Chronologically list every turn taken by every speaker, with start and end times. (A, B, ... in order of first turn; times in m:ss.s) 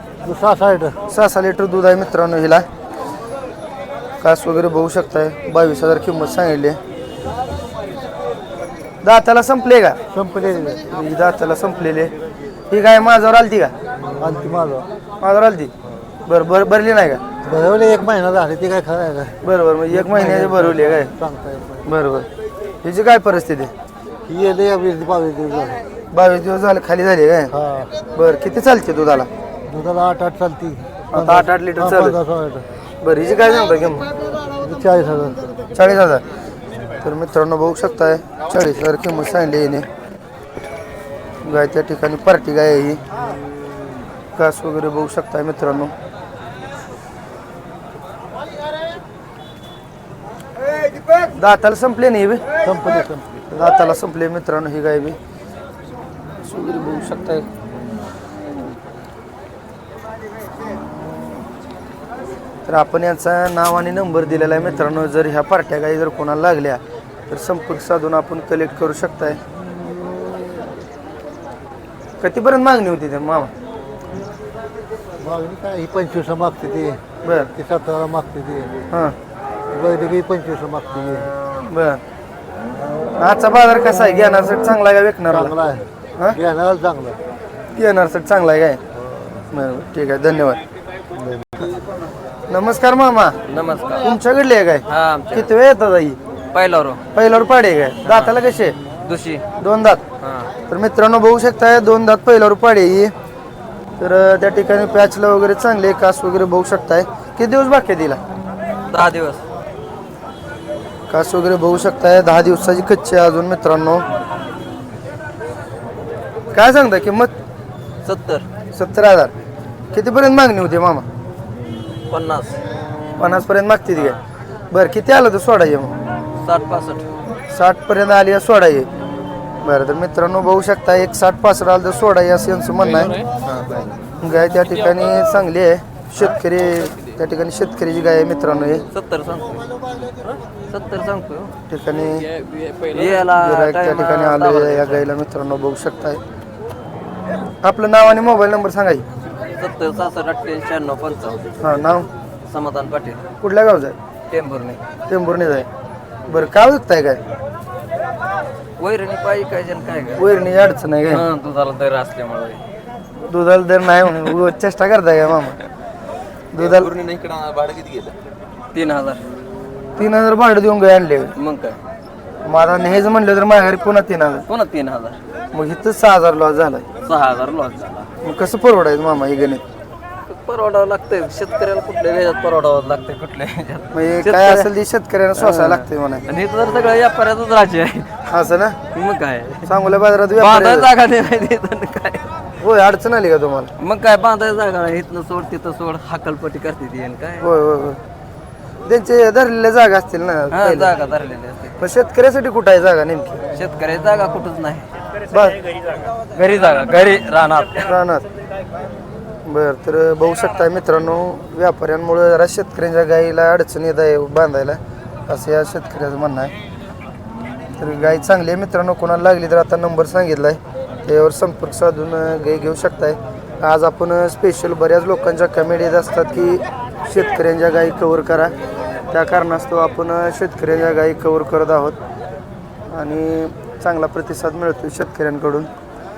0:00.2-0:01.0 A
0:01.1-0:02.7 B
0:04.2-0:06.8 B
0:09.0-0:10.0 B
0:10.1-0:10.8 A
0:10.9-0:12.1 B
0:12.7-0:13.7 B
0:14.0-0:14.9 A
0:15.2-0:15.7 B
0:16.2-0:17.2 B
0:17.4-0:19.4 A
0:19.4-0:21.1 B
0:19.9-0:21.8 A
0:21.8-0:22.3 B
0:22.8-0:23.7 B
0:24.3-0:25.8 A
0:26.1-0:27.5 B
0:27.5-0:27.9 A
0:28.1-0:29.3 B
0:29.7-0:32.7 A
0:31.1-0:32.2 B
0:33.0-0:34.1 B
0:34.5-0:35.5 A
0:35.7-0:36.2 B
0:37.0-0:39.9 B
0:41.4-0:43.0 B
0:44.4-0:45.9 B
0:51.3-0:52.4 B
0:52.6-0:53.3 A
0:53.5-0:55.2 B
0:56.4-0:57.5 B
1:02.6-1:09.4 B
1:10.0-1:10.7 A
1:12.2-1:13.5 B
1:15.2-1:17.0 A
1:17.2-1:17.5 B
1:17.5-1:18.7 A
1:19.7-1:21.3 A
1:21.7-1:22.0 B
1:23.2-1:25.5 B
1:25.3-1:27.2 A
1:27.7-1:28.8 B
1:29.0-1:29.4 A
1:29.5-1:30.6 B
1:31.2-1:31.8 A
1:32.5-1:33.4 B
1:33.5-1:34.1 C
1:34.0-1:36.2 B
1:34.9-1:35.5 C
1:36.5-1:37.0 C
1:37.1-1:38.8 B
1:38.0-1:38.3 C
1:39.0-1:39.4 C
1:39.6-1:40.0 B
1:40.2-1:40.5 C
1:40.7-1:43.1 B
1:44.0-1:48.2 B
1:48.9-1:49.4 C
1:51.1-1:54.0 B
1:56.5-1:57.3 B
1:58.0-1:58.4 C
1:58.7-1:59.3 B
1:59.9-2:01.0 B
2:02.1-2:02.6 C
2:03.2-2:04.2 B
2:04.7-2:05.9 B
2:06.4-2:07.0 C
2:07.5-2:08.9 B
2:09.6-2:13.2 B
2:13.2-2:14.0 C
2:14.2-2:18.8 B
2:18.9-2:19.9 C
2:20.7-2:21.5 C
2:21.7-2:22.3 B
2:22.6-2:25.0 C
2:23.3-2:26.2 B
2:27.6-2:29.0 B
2:29.6-2:31.4 C
2:31.6-2:32.1 B
2:32.5-2:33.3 C
2:33.4-2:34.0 B
2:34.3-2:34.8 C
2:35.1-2:35.7 B
2:36.3-2:37.2 B
2:38.8-2:40.3 C
2:40.2-2:41.2 B
2:41.1-2:42.6 C
2:43.3-2:45.6 B
2:46.5-2:47.0 B
2:46.8-2:48.1 C
2:48.7-2:49.2 C
2:50.0-2:51.3 B
2:51.4-2:51.8 C
2:52.4-2:54.4 B
2:54.5-2:55.2 C
2:55.5-2:56.8 B
2:57.0-2:58.1 C
2:58.2-2:59.6 B
3:00.3-3:04.7 C
3:03.9-3:06.2 B
3:05.4-3:08.1 C
3:08.3-3:08.8 B
3:08.9-3:09.7 C
3:09.7-3:10.9 B
3:10.4-3:12.2 C
3:12.6-3:13.7 B
3:13.8-3:17.4 C
3:17.4-3:18.0 B
3:18.8-3:20.9 B
3:20.5-3:21.8 C
3:21.8-3:23.4 B
3:23.5-3:24.9 C
3:25.3-3:25.6 B
3:26.3-3:27.9 C
3:27.8-3:28.2 B
3:29.4-3:36.5 B
3:37.8-3:48.5 B
3:49.1-3:52.0 B
3:52.9-3:55.7 B